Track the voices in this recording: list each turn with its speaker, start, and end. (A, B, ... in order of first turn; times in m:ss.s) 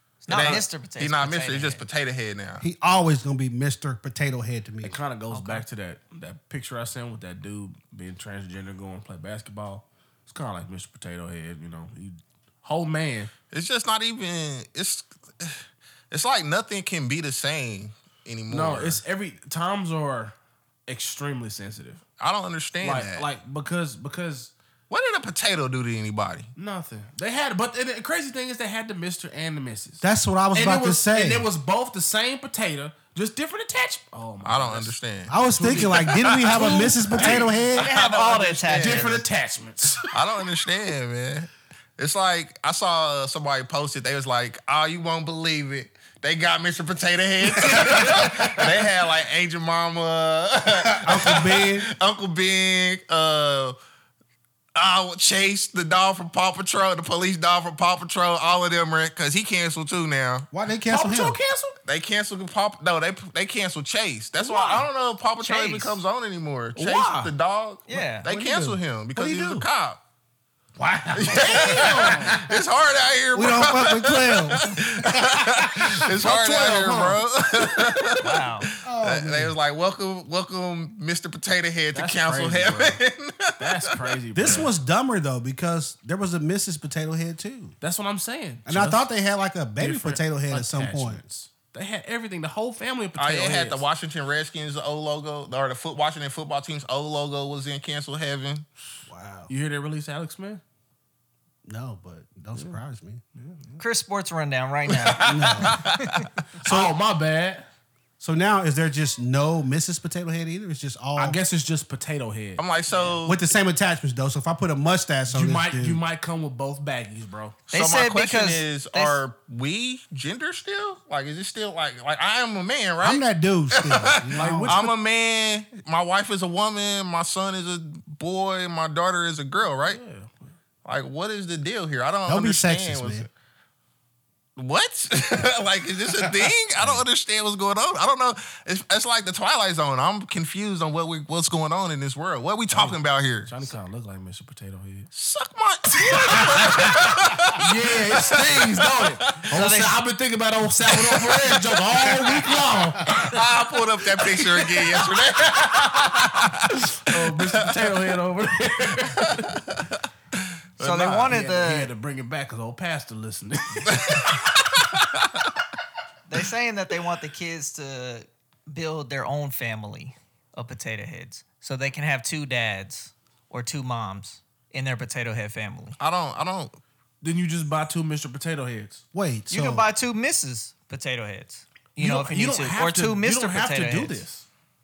0:00.2-0:01.8 A
0:00.3-0:02.6 B
0:02.6-0:05.0 C
0:04.8-0:13.3 D
0:05.3-0:05.6 A
0:13.5-0:19.0 B
0:18.5-0:20.3 D
0:20.9-0:22.0 D
0:22.2-0:23.3 B
0:22.8-0:24.5 D
0:24.9-0:26.5 B
0:26.6-0:34.9 D
0:30.0-0:31.5 C
0:34.4-0:39.2 B
0:35.3-0:37.9 C
0:35.4-0:37.6 D
0:37.7-0:39.2 A
0:38.7-0:40.1 D
0:40.1-0:53.8 B
0:47.6-0:48.4 D
0:50.8-0:51.9 C
0:54.7-1:00.5 B
1:00.5-1:01.4 C
1:00.9-1:01.8 D
1:01.8-1:10.0 B
1:04.4-1:04.8 D
1:05.4-1:06.0 A
1:06.8-1:07.3 D
1:07.9-1:08.3 A
1:08.2-1:09.6 C
1:10.8-1:12.6 C
1:11.2-1:24.6 B
1:11.3-1:12.4 D
1:13.3-1:16.1 C
1:16.1-1:17.2 D
1:18.2-1:18.7 A
1:18.8-1:19.5 C
1:21.9-1:23.0 D
1:23.6-1:24.7 D
1:24.3-1:27.7 C
1:27.8-1:29.1 D
1:28.7-1:31.2 C
1:29.8-1:33.8 D
1:33.2-1:38.6 B
1:39.1-1:39.5 C
1:39.5-1:40.6 D
1:41.6-1:43.2 C
1:43.4-1:43.8 D
1:43.8-1:46.3 A
1:45.2-1:45.8 C
1:45.7-1:46.0 B
1:46.6-1:47.7 D
1:46.6-1:46.9 C
1:48.2-1:51.4 C
1:51.2-1:53.2 D
1:52.6-1:53.4 B
1:53.2-1:56.0 C
1:55.3-1:57.6 D
1:57.7-2:10.0 B
1:57.7-1:59.2 A
2:03.0-2:04.8 C
2:04.3-2:04.9 D
2:09.9-2:10.5 D
2:10.8-2:13.3 B
2:12.2-2:13.3 C
2:14.6-2:23.5 B
2:22.7-2:25.1 D
2:25.1-2:29.4 B
2:26.0-2:39.6 D
2:29.5-2:30.0 A
2:30.9-2:37.9 B
2:39.3-2:41.4 B
2:40.8-2:41.9 A
2:41.3-2:44.8 D
2:43.9-2:44.6 B
2:46.3-2:56.0 A
2:56.0-2:56.7 B
2:57.2-2:59.0 D
2:59.1-2:59.8 C
2:59.5-3:04.2 A
3:02.0-3:04.4 D